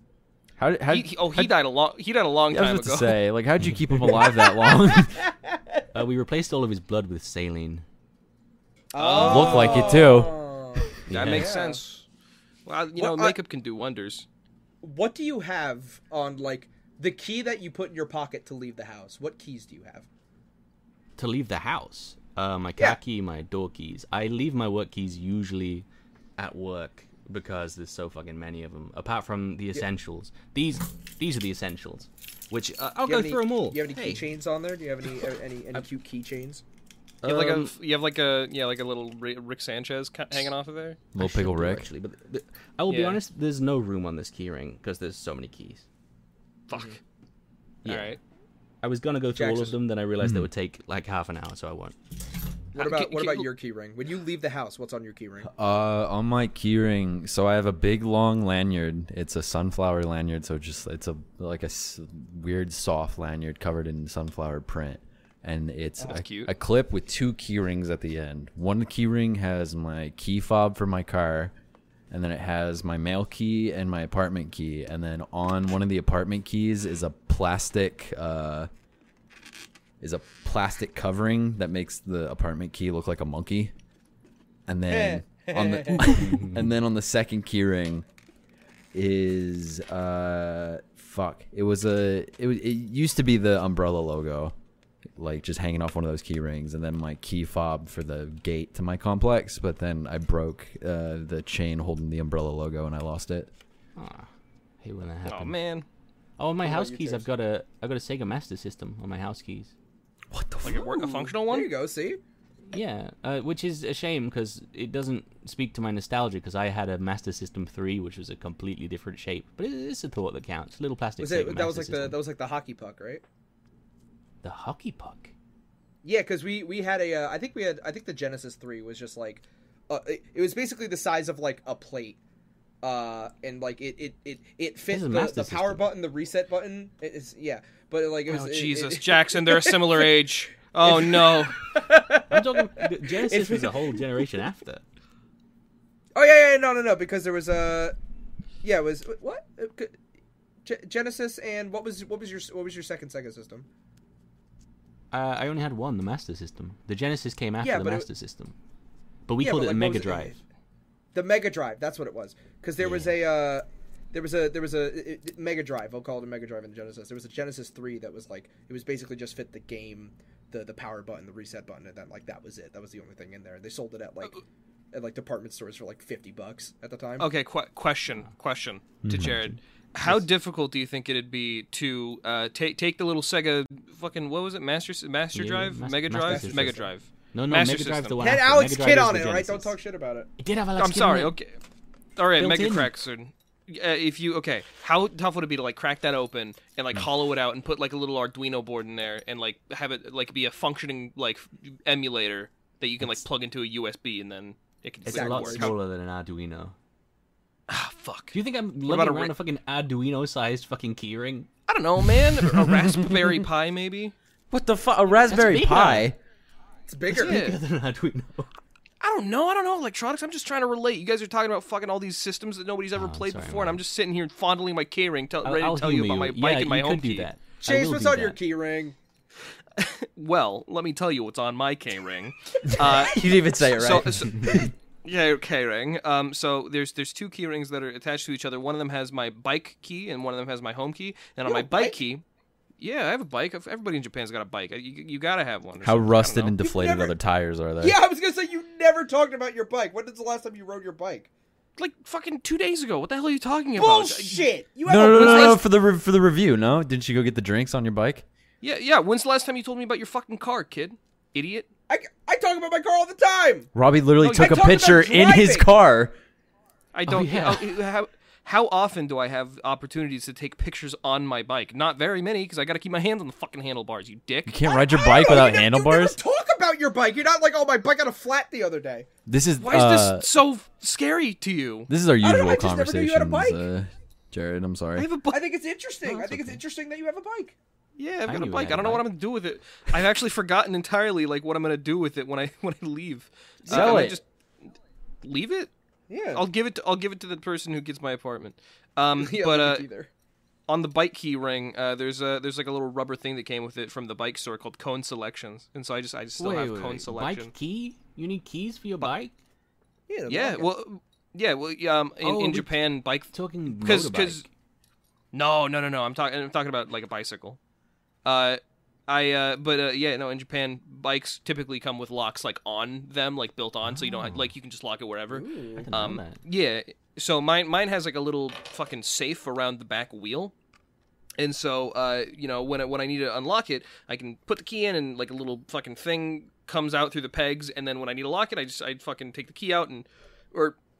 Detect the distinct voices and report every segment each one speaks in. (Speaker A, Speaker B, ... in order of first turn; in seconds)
Speaker A: 0.6-1.5, 2.5-5.2, 9.2-10.4, 11.1-11.4, 41.1-41.9, 50.2-50.5, 55.5-71.5, 72.1-78.7, 80.0-83.7, 84.7-88.0, 88.9-94.5, 95.2-103.5, 110.3-110.8, 179.0-179.5, 212.7-213.1, 214.5-216.2, 232.7-234.7, 245.8-248.0, 254.9-258.2, 263.8-266.1, 274.5-276.2, 279.3-280.2, 281.9-285.1, 293.7-294.2
Speaker B: 0.9-3.2, 8.9-10.1, 11.1-12.1, 12.7-14.2, 37.2-41.0, 42.9-43.2, 46.7-47.0, 47.9-48.2, 52.8-53.5, 66.0-66.5, 105.2-105.9, 110.6-111.7, 138.3-141.7, 177.2-188.2, 190.8-191.6, 192.2-205.7, 207.7-209.3, 211.7-214.2, 217.2-217.6, 219.0-227.3, 229.8-242.2, 242.8-246.5, 251.8-254.5, 255.1-255.6, 258.6-261.7, 264.2-264.5, 266.9-274.5, 279.6-281.9, 284.9-285.4, 288.0-294.2, 295.2-295.7, 296.3-299.9, 300.7-307.5, 310.3-314.4, 315.3-317.6, 318.2-330.5, 331.4-340.8
Speaker C: 5.9-7.8, 11.1-11.5, 21.2-25.9, 26.4-34.3, 37.2-37.7, 41.2-45.9, 47.8-48.2, 48.8-51.9, 86.0-86.7, 104.0-104.3, 104.8-105.6, 106.4-109.7, 112.7-122.2, 124.4-125.3, 134.9-135.9, 142.3-144.8, 155.1-158.6, 159.3-160.4, 162.8-163.1, 185.3-189.8, 190.4-191.3, 192.4-192.9, 205.1-206.8, 208.3-211.5, 215.3-216.1, 217.1-218.6, 222.9-223.8, 225.4-228.4, 267.1-267.7, 286.1-286.6, 288.2-289.1, 306.4-309.3, 312.2-312.7, 313.3-314.5, 323.9-324.5, 325.8-326.4
Speaker D: 8.9-11.8, 13.0-13.4, 14.8-20.1, 33.0-36.6, 49.4-49.8, 52.8-55.5, 84.9-86.0, 106.6-107.3, 110.6-112.2, 121.2-123.2, 126.0-132.2, 132.8-140.1, 140.8-144.0, 146.2-147.9, 148.6-150.0, 150.7-153.7, 157.6-158.1, 159.4-160.4, 161.1-177.3, 186.2-186.9, 188.2-190.3, 205.1-205.7, 216.9-217.5, 227.6-229.0, 241.5-242.0, 246.6-247.2, 247.8-251.3, 253.8-255.6, 261.9-263.7, 264.2-265.7, 274.6-279.1, 282.2-283.7, 285.3-287.6, 293.6-294.2, 296.1-296.4, 299.2-300.1, 310.1-310.7, 325.3-325.9